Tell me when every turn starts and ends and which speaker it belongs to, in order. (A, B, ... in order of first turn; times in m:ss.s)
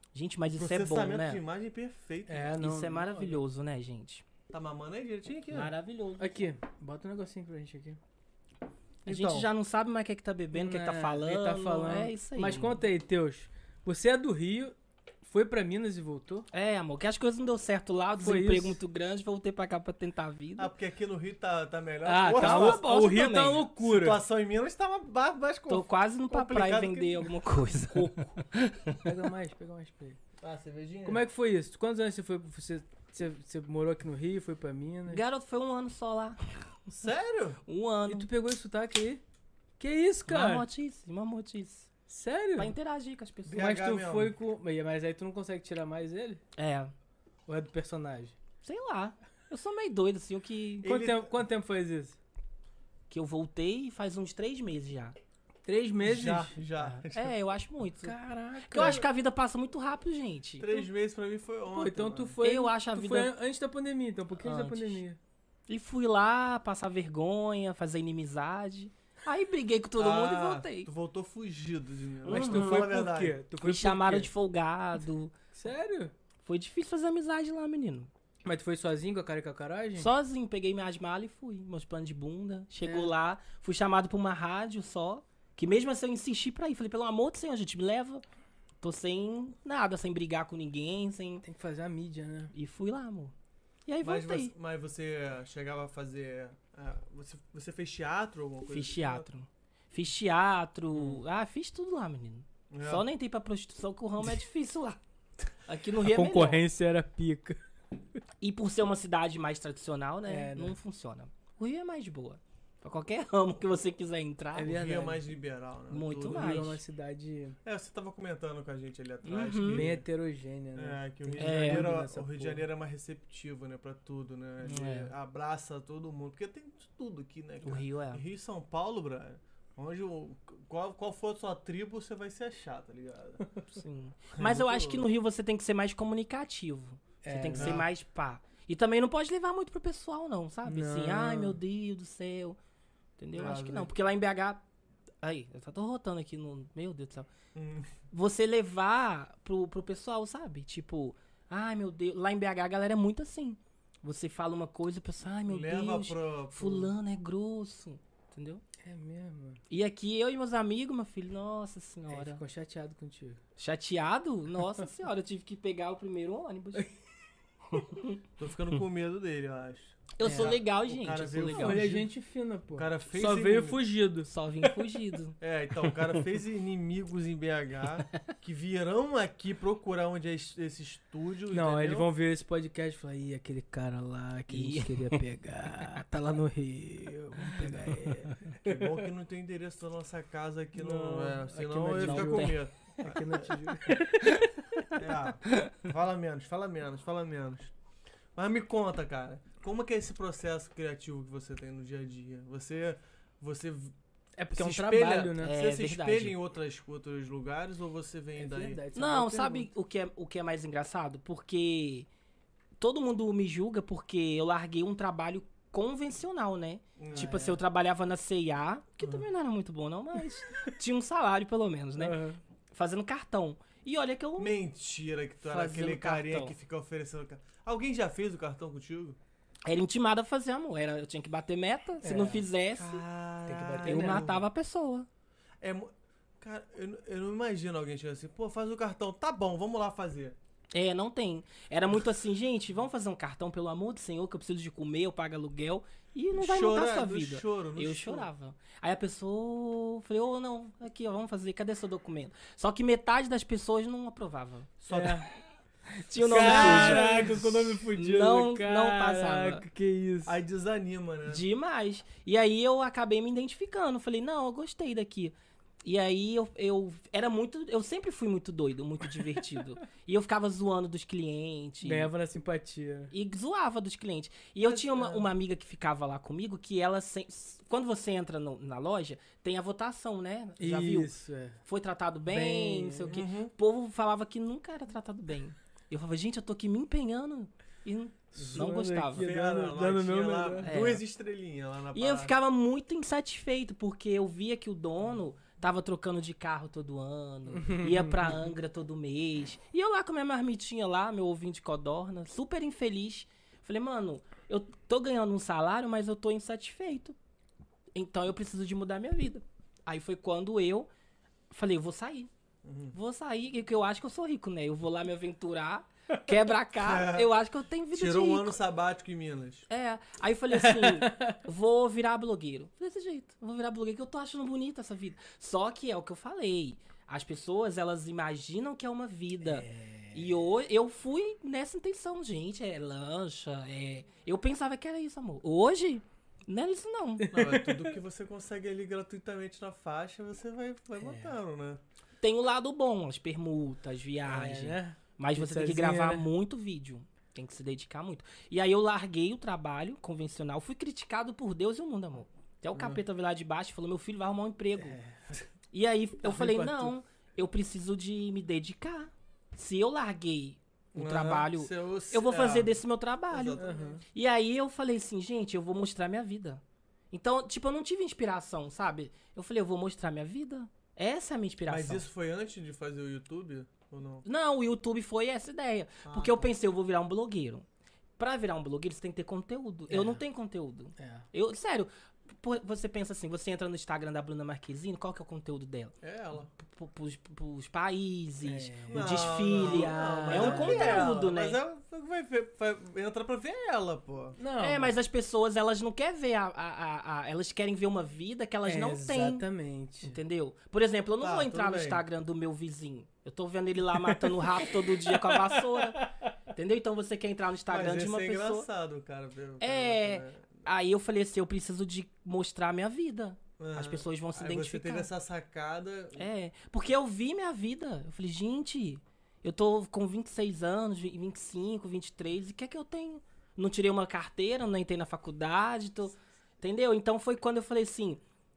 0:00.1-0:01.4 A
0:00.5-0:02.5 B
0:02.3-0:03.4 C
0:02.6-0:04.2 A
0:04.5-0:05.7 B
0:05.5-0:06.4 A
0:06.2-0:08.0 C
0:09.0-0:09.5 B
0:09.0-0:12.8 A
0:10.5-0:16.5 C
0:16.5-0:20.7 A
0:18.2-0:18.8 C
0:20.6-0:22.8 B
0:22.0-0:24.2 C
0:22.3-0:23.7 A
0:23.8-0:27.3 B
0:25.7-0:29.1 A
0:29.0-0:30.2 C
0:30.4-0:31.2 B
0:31.0-0:35.2 C
0:35.1-0:36.4 A
0:36.9-0:37.6 B
0:37.7-0:38.3 A
0:38.1-0:39.2 C
0:39.8-0:40.6 C
0:40.3-0:41.9 A
0:42.1-0:42.7 C
0:42.6-0:43.6 A
0:43.4-0:44.3 B
0:43.6-0:46.4 C
0:46.6-0:46.9 A
0:47.5-0:48.3 C
0:48.6-0:50.9 A
0:50.8-0:51.3 B
0:50.8-0:52.2 C
0:53.1-0:55.2 A
0:55.6-0:56.5 C
0:56.0-0:57.3 B
0:56.8-0:58.2 A
0:58.0-0:59.0 C
0:58.7-1:00.9 A
1:00.6-1:02.4 B
1:01.7-1:05.2 C
1:02.4-1:03.3 A
1:04.4-1:05.0 A
1:05.7-1:10.9 A
1:10.0-1:13.4 B
1:12.2-1:12.9 A
1:12.3-1:14.3 C
1:13.6-1:15.3 A
1:15.5-1:16.1 C
1:16.4-1:18.1 A
1:18.4-1:20.1 C
1:20.0-1:28.2 A
1:22.8-1:23.1 C
1:28.8-1:31.4 A
1:31.4-1:32.5 C
1:32.5-1:33.3 A
1:33.8-1:34.5 A
1:34.0-1:39.3 B
1:38.7-1:45.0 A
1:40.9-1:41.2 B
1:42.7-1:43.0 B
1:45.5-1:46.6 A
1:46.0-1:47.6 C
1:48.4-1:54.7 A
1:50.3-1:50.8 C
1:54.5-1:55.2 C
1:54.6-1:56.8 B
1:55.9-1:56.8 A
1:56.2-1:57.6 C
1:57.6-2:00.0 B
1:59.2-1:59.9 A
1:59.7-2:02.6 C
2:00.7-2:13.4 B
2:01.4-2:01.9 A
2:04.6-2:05.1 A
2:07.6-2:08.2 A
2:13.7-2:22.6 A
2:14.4-2:15.0 B
2:17.2-2:17.8 C
2:17.5-2:17.9 B
2:20.6-2:21.6 C
2:23.2-2:24.6 A
2:23.3-2:23.9 B
2:25.2-2:27.3 A
2:27.5-2:27.9 B
2:28.1-2:38.6 A
2:35.5-2:36.9 B
2:38.8-2:39.6 C
2:39.7-2:42.4 A
2:42.1-2:43.4 C
2:43.6-2:46.9 A
2:47.7-2:48.2 A
2:48.4-2:52.1 B
2:50.2-2:52.0 A
2:50.2-2:50.5 C
2:51.5-2:54.3 C
2:52.7-2:53.9 B
2:54.2-2:55.4 A
2:55.4-3:02.1 B
3:01.5-3:09.0 C
3:04.5-3:05.2 A
3:08.5-3:13.7 B
3:10.7-3:14.5 C
3:12.0-3:12.6 A
3:14.9-3:17.7 B
3:18.3-3:23.9 B
3:24.4-3:25.5 C
3:24.5-3:28.8 B
3:25.4-3:26.3 A
3:28.4-3:29.7 C
3:28.9-3:32.1 A
3:32.8-3:42.2 A
3:37.0-3:37.4 B
3:37.1-3:37.6 C
3:42.0-3:42.4 C
3:42.7-3:44.5 A
3:44.4-3:49.2 B
3:45.4-3:46.5 A
3:49.6-3:53.0 A
3:52.0-3:52.4 C
3:52.7-3:54.5 B
3:53.5-3:54.3 C
3:53.8-3:55.1 A
3:55.6-4:00.4 B
4:00.7-4:14.7 A
4:06.4-4:08.3 B
4:14.8-4:15.2 B
4:14.9-4:15.3 C
4:16.0-4:17.3 A
4:16.2-4:17.5 B
4:16.2-4:20.4 C
4:17.9-4:19.6 A
4:20.2-4:21.4 B
4:21.2-4:32.1 A
4:31.8-4:33.1 C
4:33.1-4:41.1 A
4:34.6-4:35.3 B
4:40.6-4:41.6 C
4:41.6-4:49.3 A
4:42.3-4:43.1 C
4:43.1-4:43.5 B
4:48.3-4:50.7 C
4:49.1-4:52.3 B
4:50.6-4:51.0 A
4:51.9-5:07.2 A
4:57.5-4:58.4 C
5:07.9-5:10.9 A
5:11.5-5:12.3 A
5:12.6-5:12.9 B
5:12.9-5:18.6 A
5:16.8-5:17.3 B
5:17.9-5:19.7 B
5:19.7-5:37.3 A
5:20.6-5:21.4 C
5:29.4-5:30.3 C
5:37.2-5:38.0 C
5:37.3-5:41.8 B
5:41.0-5:41.4 C
5:42.2-5:55.0 A
5:44.2-5:46.3 C
5:52.7-5:53.0 B
5:54.8-5:55.4 C
5:55.7-6:12.0 A
5:56.2-5:56.9 C
6:00.9-6:02.7 B
6:03.3-6:04.0 B
6:03.6-6:04.0 C
6:11.7-6:14.2 B
6:14.2-6:17.6 A
6:16.0-6:16.5 B
6:18.2-6:25.9 A
6:19.9-6:20.2 C
6:21.0-6:21.2 C
6:26.0-6:26.5 B
6:26.6-6:31.6 A
6:28.4-6:31.1 C
6:28.9-6:34.4 B
6:34.4-6:34.9 C
6:34.6-6:39.4 A
6:38.6-6:40.2 C
6:40.0-6:48.7 A
6:41.2-6:42.0 B
6:44.0-6:46.1 C
6:47.7-6:50.6 B
6:49.6-6:55.1 A
6:53.6-6:56.3 B
6:56.2-7:08.2 A